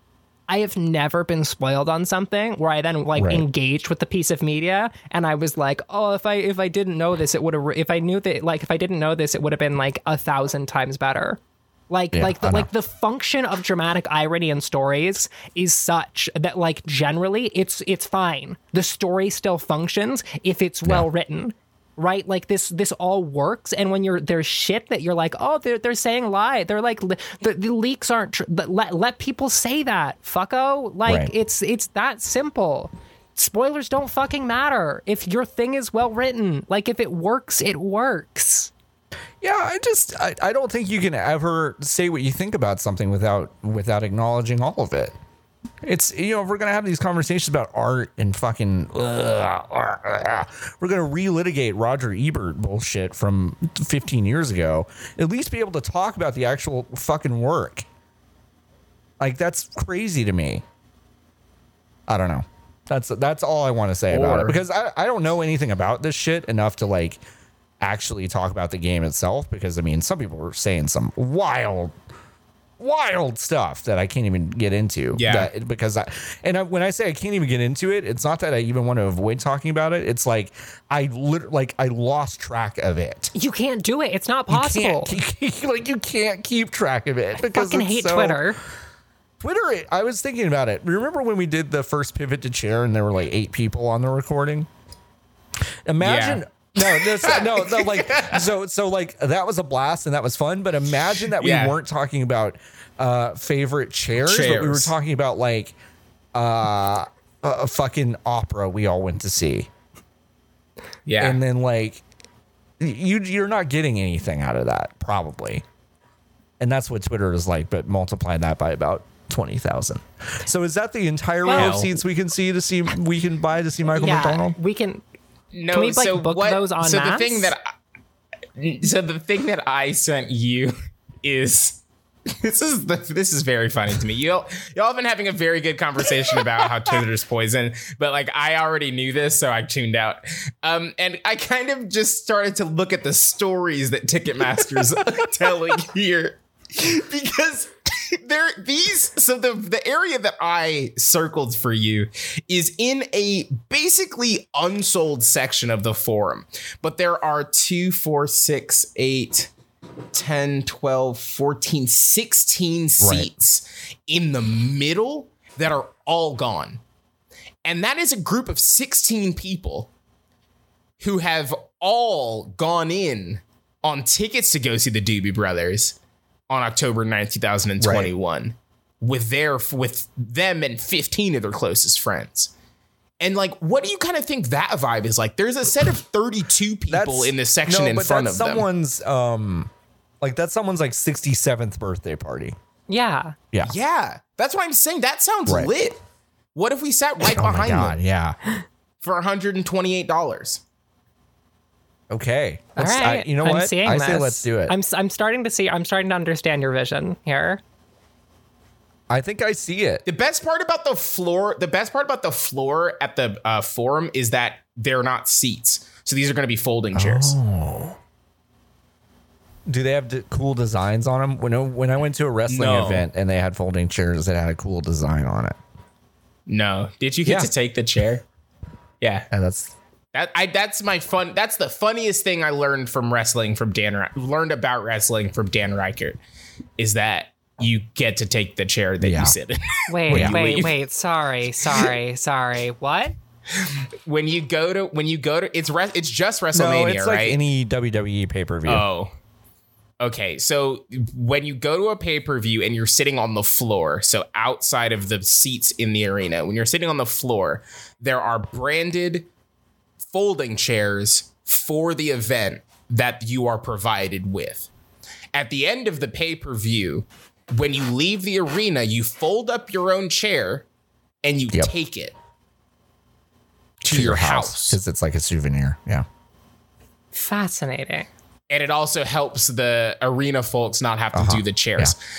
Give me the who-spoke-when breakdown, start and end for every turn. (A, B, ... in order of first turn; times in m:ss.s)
0:00.5-0:38.7 A
0:03.2-0:03.4 B
0:12.1-0:12.7 B
0:31.0-0:31.3 B
0:39.4-0:45.1 B
0:45.8-0:57.8 B
0:59.2-1:00.6 B
1:02.1-1:07.2 B
1:04.1-1:04.6 C
1:07.8-1:11.9 B
1:12.8-1:23.3 B
1:15.1-1:15.5 C
1:23.3-1:25.2 A
1:24.5-1:28.5 B
1:27.4-1:28.6 A
1:29.4-1:34.7 B
1:35.8-1:45.7 B
1:36.0-1:38.5 C
1:41.3-1:41.8 C
1:44.2-1:44.9 C
1:46.3-1:49.7 B
1:51.0-1:51.4 C
1:51.2-1:52.0 B
1:52.8-1:55.6 B
1:56.6-2:04.6 B
2:01.4-2:01.7 A
2:01.5-2:02.0 C
2:04.0-2:05.0 A
2:05.5-2:07.6 C
2:05.7-2:07.5 A
2:08.6-2:39.5 C
2:40.1-2:46.8 C
2:43.0-2:43.3 B
2:47.6-2:49.9 C
2:51.0-2:56.0 C
2:56.5-3:02.5 C
2:57.8-2:58.1 B
3:03.2-3:08.6 C
3:06.9-3:12.6 B
3:12.9-3:13.4 A
3:13.6-3:16.0 C
3:15.4-3:15.7 B
3:16.5-3:18.0 C
3:17.3-3:18.4 B
3:19.0-3:20.6 C
3:22.1-3:24.7 B
3:22.7-3:27.6 A
3:29.1-3:30.0 B
3:30.0-3:37.3 C
3:36.9-3:38.0 B
3:39.6-3:45.6 B
3:42.5-3:43.0 C
3:46.5-3:48.2 C
3:47.2-3:47.5 B
3:49.0-3:49.3 C
3:49.3-3:49.7 B
3:50.1-3:56.2 C
3:56.8-4:00.7 C
3:59.0-3:59.4 B
3:59.9-4:03.2 A
4:00.1-4:00.6 B
4:03.6-4:07.4 C
4:06.5-4:08.8 B
4:08.6-4:09.1 C
4:10.0-4:19.3 C
4:20.1-4:24.7 C
4:25.3-4:30.6 C
4:31.2-4:32.1 C
4:33.8-4:34.8 C
4:33.8-4:36.0 B
4:37.1-4:38.1 A
4:38.5-4:42.0 C
4:41.1-4:41.9 B